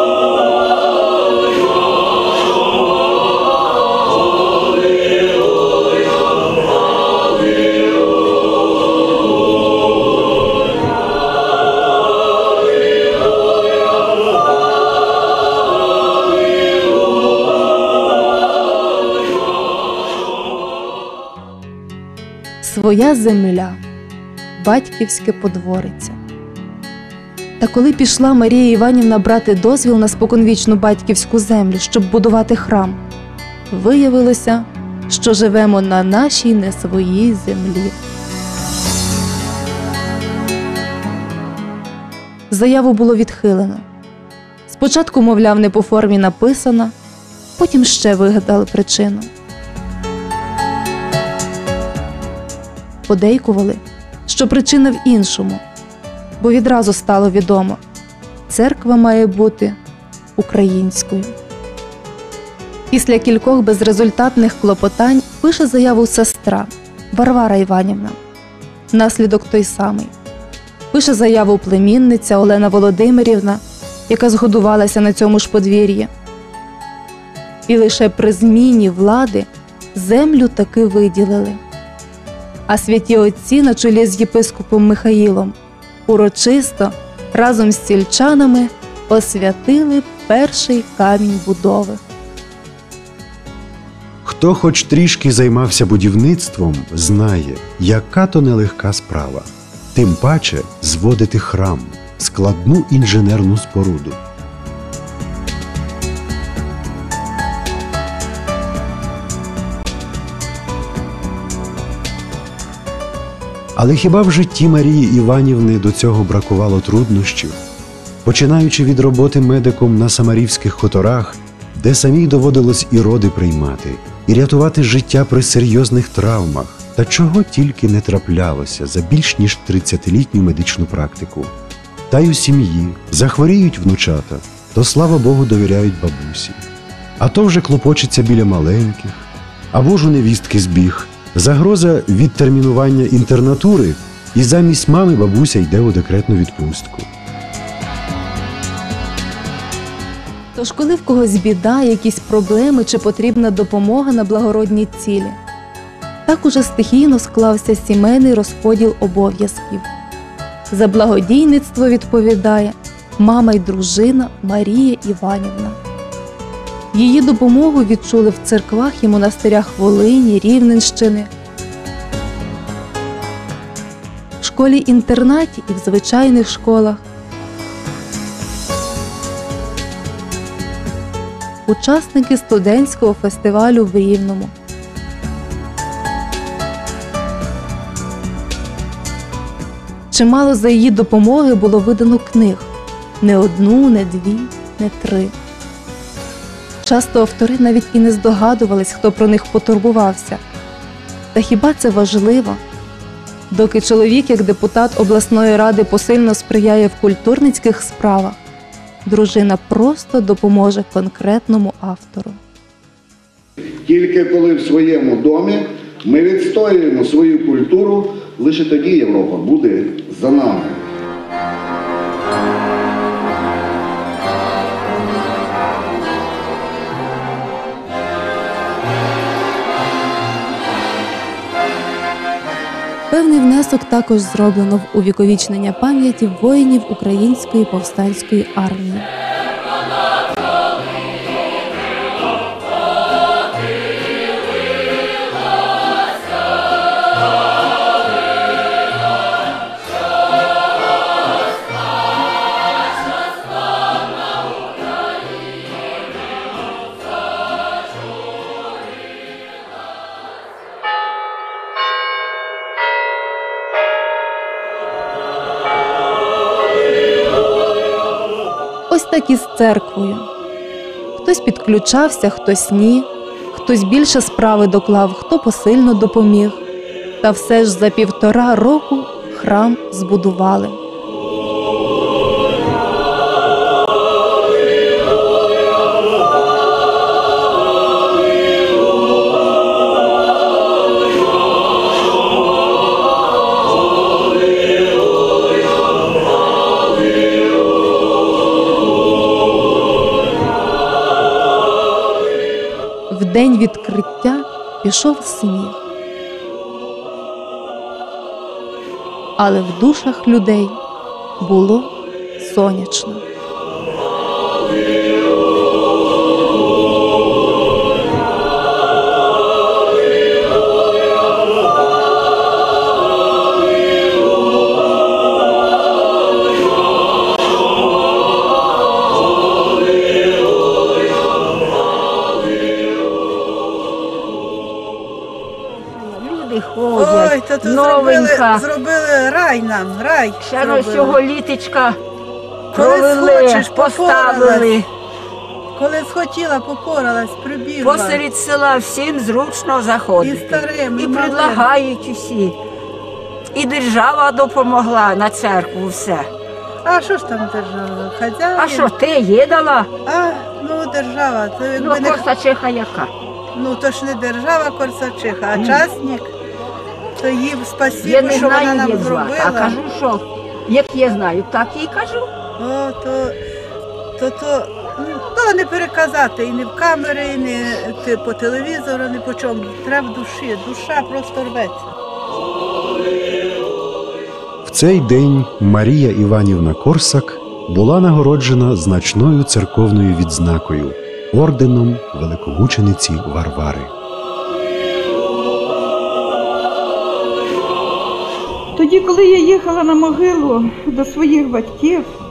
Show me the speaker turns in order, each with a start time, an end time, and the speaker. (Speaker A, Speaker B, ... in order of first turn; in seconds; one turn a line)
Speaker A: 22.6-23.8
Speaker A: 24.6-26.2
Speaker A: 27.6-33.0
Speaker A: 33.7-38.0
Speaker A: 42.5-43.9
Speaker A: 44.7-46.9
Speaker A: 47.6-49.3
Speaker A: 53.1-55.6
Speaker A: 56.4-57.8
Speaker A: 58.5-59.8
Speaker A: 60.4-61.3
Speaker A: 62.9-68.2
Speaker A: 68.9-70.1
Speaker A: 70.9-76.1
Speaker A: 77.7-81.6
Speaker A: 82.7-85.5
Speaker A: 86.1-92.0
Speaker B: 94.2-104.2
Speaker B: 113.8-117.6
Speaker B: 118.2-131.5
Speaker B: 132.1-136.6
Speaker B: 137.2-147.1
Speaker A: 150.6-155.4
Speaker A: 156.3-159.9
Speaker A: 160.7-165.8
Speaker A: 166.9-171.3
Speaker A: 174.4-177.0
Speaker A: 181.7-184.5
Speaker A: 190.1-192.7
Speaker A: 193.2-195.3
Speaker A: 196.8-200.4
Speaker A: 201.3-202.6
Speaker A: 203.5-208.4
Speaker A: 209.1-212.4
Speaker C: 213.6-220.8
Speaker A: 233.1-239.1
Speaker A: 268.9-270.3
Speaker A: 271.2-276.6
Speaker A: 277.2-280.8
Speaker A: 303.1-305.8
Speaker A: 309.4-310.8
Speaker A: 311.4-313.2
Speaker D: 335.9-338.6
Speaker E: 337.0-341.2
Speaker D: 340.4-342.0
Speaker E: 342.7-344.8
Speaker D: 342.7-344.9
Speaker E: 345.8-348.2
Speaker D: 347.8-352.6
Speaker E: 350.2-351.6
Speaker D: 353.5-356.3
Speaker E: 356.9-358.9
Speaker D: 358.6-359.9
Speaker E: 360.1-362.2
Speaker D: 361.8-363.1
Speaker E: 363.6-366.3
Speaker D: 365.6-365.8
Speaker E: 367.2-369.8
Speaker D: 368.0-372.3
Speaker E: 372.6-373.4
Speaker E: 374.2-381.8
Speaker B: 384.6-393.9
Speaker F: 398.8-402.1